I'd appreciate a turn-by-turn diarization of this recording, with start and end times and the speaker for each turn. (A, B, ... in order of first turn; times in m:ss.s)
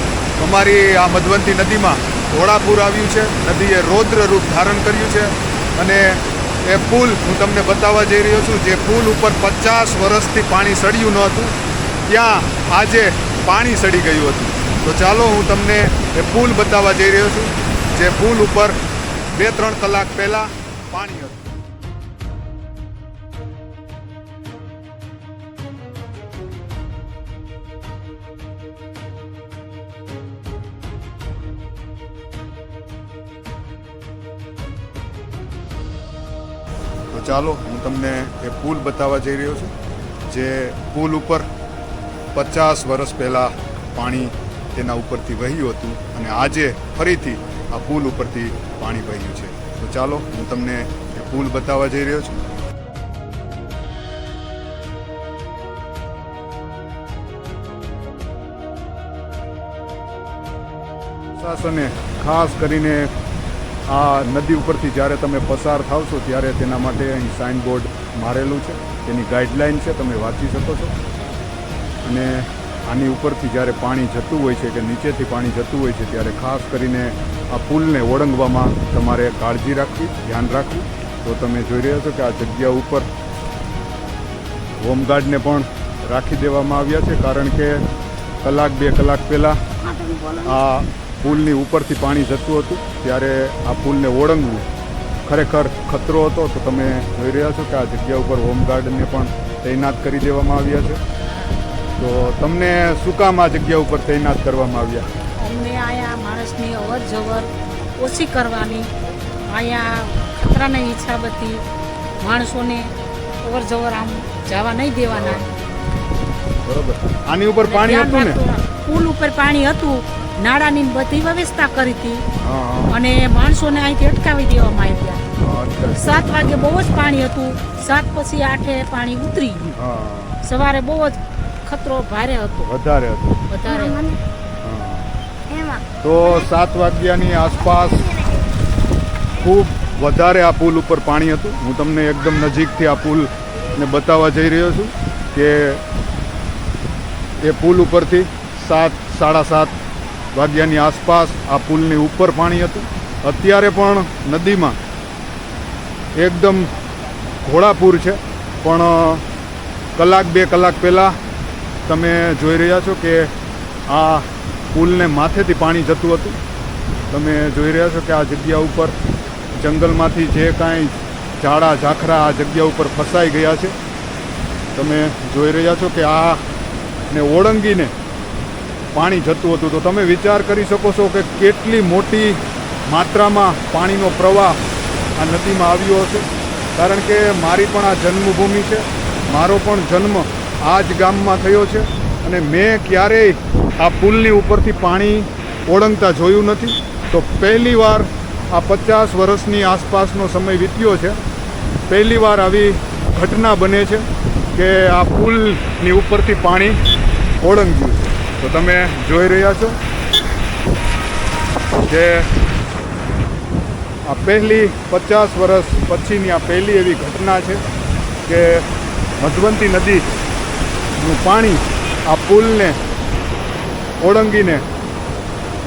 0:00.4-0:11.5 A
0:12.0-0:18.8 A
0:19.3-0:21.5 A
0:37.1-0:39.7 A
0:40.3-0:41.5 A
0:42.3-0:52.3 A
1:01.4-1:03.1 A
1:03.9-1:10.9 A
1:12.0-1:23.1 A
1:24.8-1:27.8 A
1:28.4-1:29.6 A
1:29.9-1:30.4 B
1:30.4-1:34.7 A
1:35.2-1:41.0 A
1:42.0-1:45.1 A
1:45.4-1:51.6 B
1:52.2-1:55.4 B
1:55.1-1:55.8 A
1:56.6-1:58.4 A
1:57.6-2:02.2 B
2:02.4-2:03.0 A
2:02.9-2:05.2 B
2:05.4-2:06.3 A
2:05.9-2:09.8 B
2:09.8-2:10.4 A
2:10.4-2:12.7 B
2:12.6-2:13.4 A
2:13.5-2:14.2 B
2:14.6-2:15.1 A
2:15.5-2:15.8 B
2:16.0-2:18.1 A
2:19.3-2:25.8 A
2:27.4-2:29.8 A
2:30.3-2:34.8 A
2:36.1-2:36.7 A
2:37.4-2:39.2 A
2:40.0-2:41.2 A
2:41.9-2:43.3 A
2:43.9-2:46.4 A
2:47.1-2:49.0 A
2:49.5-2:53.8 A
2:54.7-2:56.4 A
2:57.1-2:57.9 A
2:58.9-3:04.6 A
3:05.2-3:21.2 A
3:21.9-3:26.8 A
3:27.4-3:29.8 A
3:31.9-3:32.3 A
3:34.0-3:37.6 A
3:38.2-3:38.7 A
3:39.2-3:40.1 A
3:41.0-3:42.8 A
3:44.0-3:44.7 A